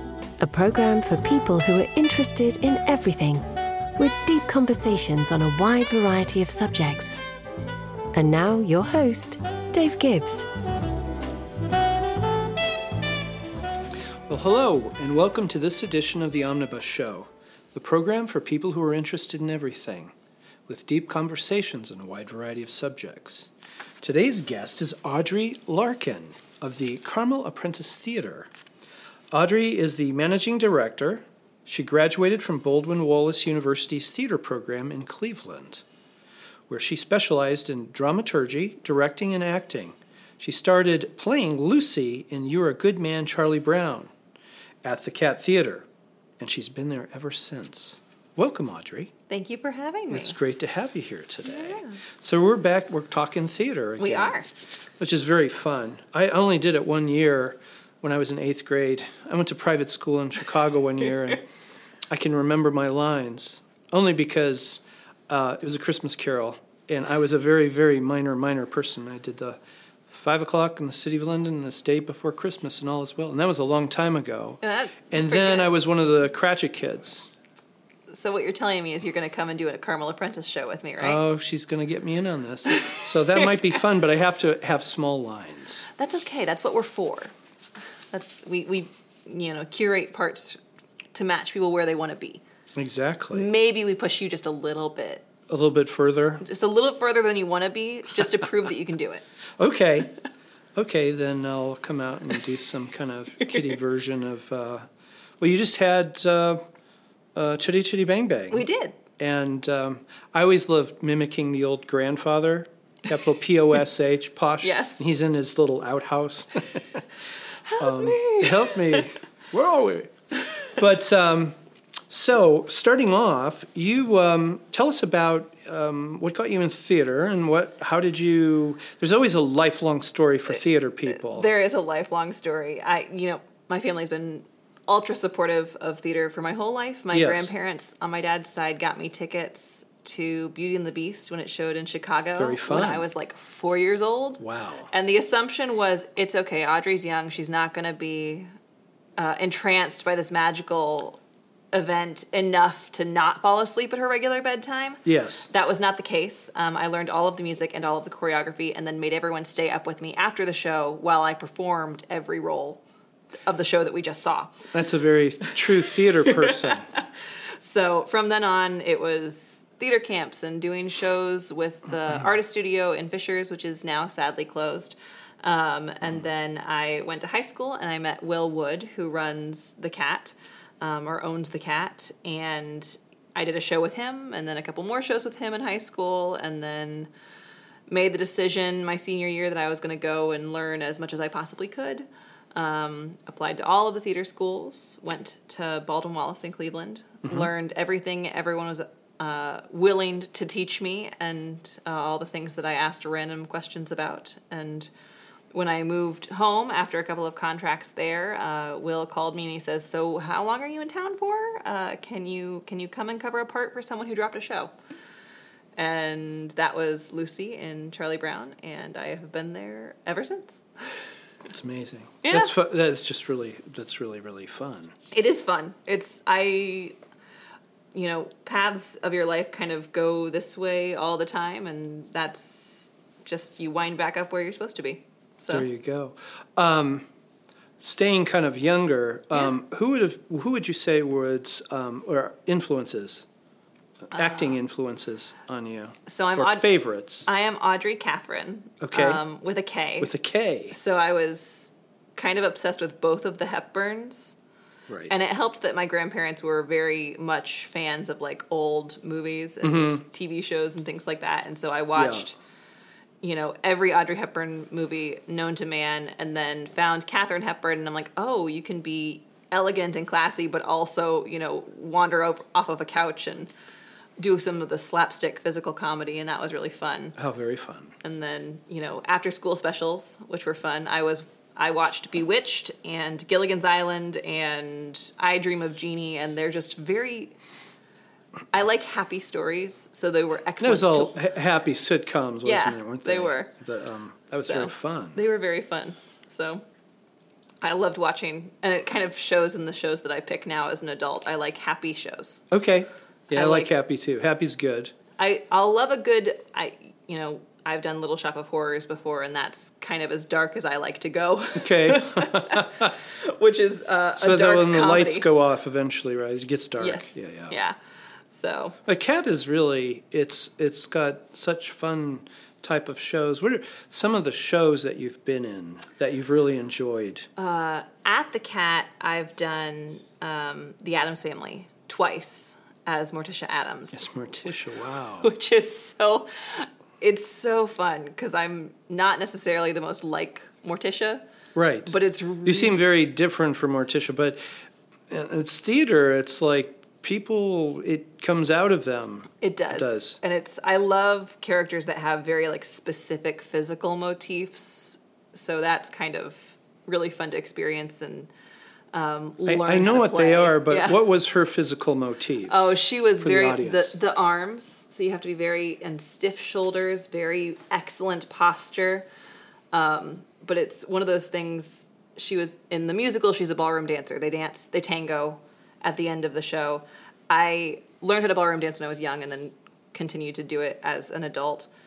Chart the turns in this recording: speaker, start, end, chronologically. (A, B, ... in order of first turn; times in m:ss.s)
0:00.4-0:03.4 A
0:04.0-0:07.2 A
0:08.1-0:10.4 A
0:14.3-0:20.1 B
0:20.7-0:23.5 B
0:24.0-0:28.5 B
0:29.3-0:35.8 B
0:36.7-0:44.1 B
0:44.8-0:45.9 B
0:46.4-0:49.1 B
0:49.3-0:50.4 C
0:50.1-0:54.4 B
0:51.4-0:52.0 C
0:54.0-0:54.5 C
0:55.0-1:01.4 B
1:02.1-1:17.3 B
1:14.6-1:15.7 C
1:18.1-1:21.2 C
1:21.0-1:25.9 B
1:26.0-1:27.3 C
1:28.1-1:30.6 C
1:31.1-1:32.4 C
1:32.8-1:33.5 B
1:33.3-1:35.3 C
1:35.5-1:36.4 B
1:36.4-1:39.2 C
1:39.6-1:40.1 B
1:40.7-1:44.9 B
1:45.4-1:46.6 B
1:47.3-1:48.6 B
1:48.5-1:49.0 C
1:49.2-1:57.0 B
1:54.6-1:55.1 C
1:57.6-1:59.1 C
1:57.8-2:00.1 B
2:00.6-2:01.5 B
2:02.1-2:11.5 B
2:11.1-2:28.5 C
2:17.1-2:17.5 B
2:22.4-2:23.0 B
2:24.4-2:24.9 B
2:29.2-2:31.2 C
2:31.7-2:42.8 C
2:35.0-2:35.5 B
2:43.4-2:44.6 C
2:44.7-2:46.9 B
2:46.2-3:07.1 C
3:07.9-3:24.9 C
3:25.5-3:34.7 C
3:35.8-3:40.6 C
3:41.5-3:44.9 B
3:42.2-3:42.5 C
3:45.1-3:47.0 C
3:47.9-3:55.7 C
3:55.5-3:57.1 B
3:57.8-4:03.2 B
4:04.1-4:07.3 B
4:06.1-4:06.6 C
4:07.2-4:10.1 C
4:08.8-4:09.2 B
4:10.0-4:10.8 B
4:10.7-4:14.4 C
4:14.9-4:15.1 B
4:15.1-4:22.4 C
4:19.6-4:20.0 B
4:22.0-4:22.3 B
4:23.2-4:33.5 C
4:34.2-4:37.2 C
4:37.2-4:37.9 B
4:38.0-4:47.3 C
4:48.5-4:51.2 C
4:50.6-4:55.2 B
4:52.4-4:53.5 C
4:54.4-4:56.6 C
4:57.6-5:02.4 C
5:02.5-5:04.9 B
5:03.3-5:03.7 C
5:05.2-5:15.3 C
5:11.6-5:12.9 B
5:14.2-5:17.6 B
5:16.8-5:17.7 C
5:18.3-5:18.8 C
5:18.8-5:27.3 B
5:27.4-5:34.1 C
5:33.9-5:35.3 B
5:35.2-5:41.2 C
5:41.5-5:44.4 B
5:41.9-5:42.8 C
5:45.1-5:50.2 B
5:49.4-5:58.3 C
5:58.9-6:01.0 C
5:59.4-6:03.9 B
6:02.5-6:09.0 C
6:09.7-6:21.7 C